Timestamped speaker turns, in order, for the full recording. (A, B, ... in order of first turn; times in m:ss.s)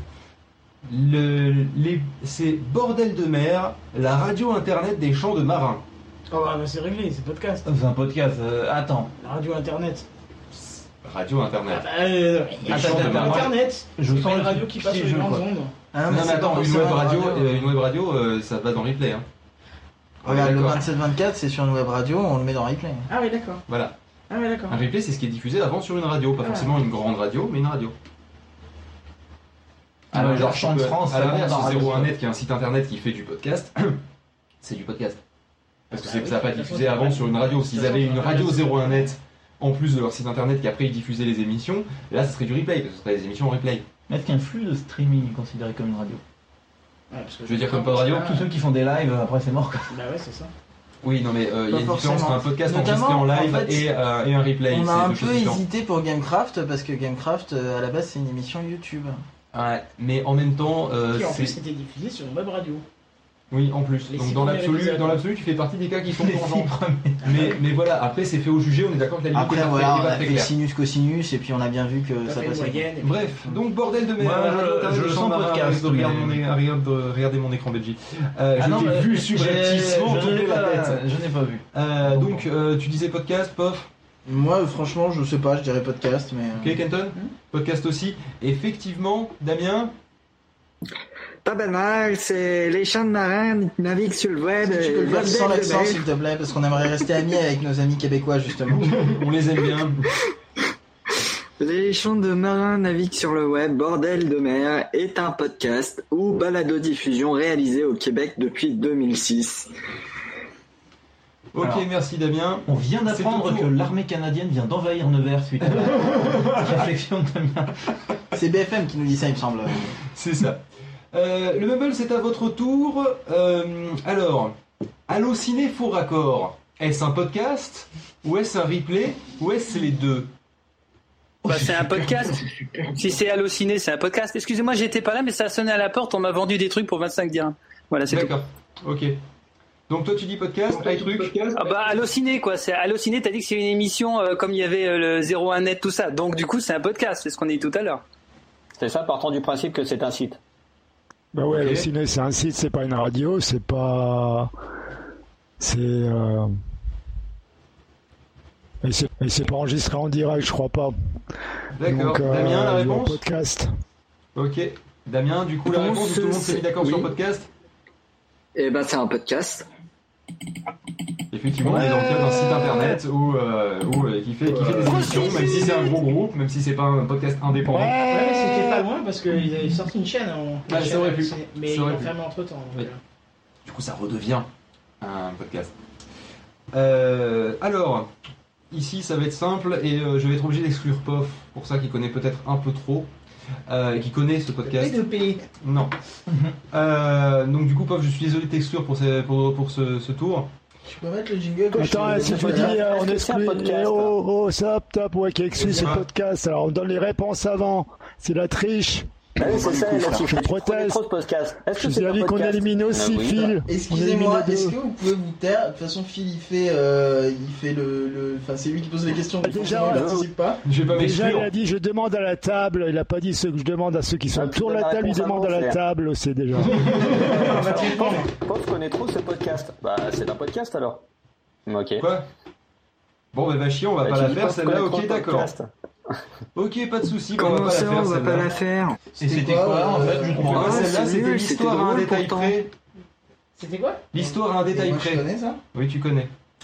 0:00.9-0:05.8 A
0:06.3-0:07.6 B
0:07.6-0:09.1 C
0:09.2-0:10.0 B
0:10.5-0:11.9 A
0:11.7-0:15.7 B
0:12.6-0:13.5 A
0:12.7-0:15.4 C
0:15.9-0:17.6 D
0:16.1-0:19.2 A
0:20.2-0:20.8 A
0:20.2-0:23.1 D
0:23.1-0:23.6 B
0:23.7-0:24.0 A
0:24.3-0:24.8 B
0:24.7-0:27.9 A
0:26.4-0:26.7 B
0:30.1-0:32.1 C
0:30.1-0:34.0 A
0:34.6-0:35.2 A
0:35.9-0:39.1 B
0:35.9-0:43.8 A
0:44.1-0:46.2 C
0:47.1-0:48.5 B
0:47.4-0:48.4 A
0:48.1-0:49.9 C
0:49.9-0:50.5 B
0:51.0-0:55.6 A
0:51.7-0:53.9 D
0:54.7-0:59.2 D
0:59.5-1:01.6 A
1:01.1-1:02.8 B
1:03.5-1:10.5 A
1:04.1-1:05.2 B
1:06.1-1:07.6 C
1:09.3-1:12.9 D
1:12.2-1:13.4 B
1:13.0-1:21.0 A
1:14.2-1:16.4 C
1:18.6-1:22.4 C
1:21.7-1:23.9 A
1:24.2-1:26.8 D
1:26.6-1:29.9 A
1:31.4-1:36.0 E
1:34.6-1:39.1 D
1:38.7-1:40.0 A
1:41.6-1:49.7 E
1:51.5-1:53.7 A
1:52.6-1:57.8 C
1:55.6-1:56.8 A
1:58.3-2:00.0 D
2:00.1-2:00.6 A
2:01.1-2:04.5 A
2:05.1-2:10.3 A
2:11.4-2:18.3 F
2:18.1-2:19.1 A
2:19.9-2:21.4 A
2:21.4-2:28.0 F
2:28.8-2:30.4 G
2:31.3-2:34.5 H
2:31.5-2:31.9 A
2:35.6-2:36.5 H
2:38.8-2:40.9 H
2:41.8-2:43.2 A
2:41.8-2:43.7 H
2:44.3-2:47.5 A
2:45.6-2:47.1 E
2:48.5-2:49.7 E
2:51.3-2:58.0 A
2:51.6-2:52.8 H
2:54.8-2:55.5 B
2:57.6-2:58.8 H
2:58.1-3:03.0 B
3:00.7-3:02.1 A
3:03.6-3:04.5 A
3:05.0-3:05.7 A
3:06.7-3:08.1 A
3:08.7-3:13.1 A
3:13.7-3:15.0 A
3:14.7-3:15.4 B
3:15.6-3:15.9 A
3:16.3-3:16.6 C
3:16.7-3:20.5 A
3:20.8-3:22.8 D
3:21.7-3:29.1 H
3:22.3-3:24.1 G
3:25.6-3:26.0 A
3:29.4-3:33.6 G
3:29.4-3:30.3 D
3:30.1-3:31.0 H
3:31.7-3:34.7 H
3:33.6-3:40.6 D
3:39.4-3:40.2 H
3:39.6-3:40.3 G
3:40.6-3:41.5 A
3:40.9-3:46.9 H
3:44.3-3:45.8 G
3:46.6-3:47.3 A
3:46.8-3:48.3 B
3:47.4-3:51.0 G
3:51.7-3:52.1 G
3:52.0-3:52.2 A
3:53.3-3:55.5 A
3:54.0-3:56.2 G
3:56.5-3:58.5 A
3:57.4-3:59.0 E
3:59.2-4:00.6 D
3:59.2-4:00.9 C
4:00.4-4:02.7 A
4:00.5-4:02.6 E
4:03.6-4:04.1 B
4:04.1-4:06.3 A
4:04.2-4:05.6 D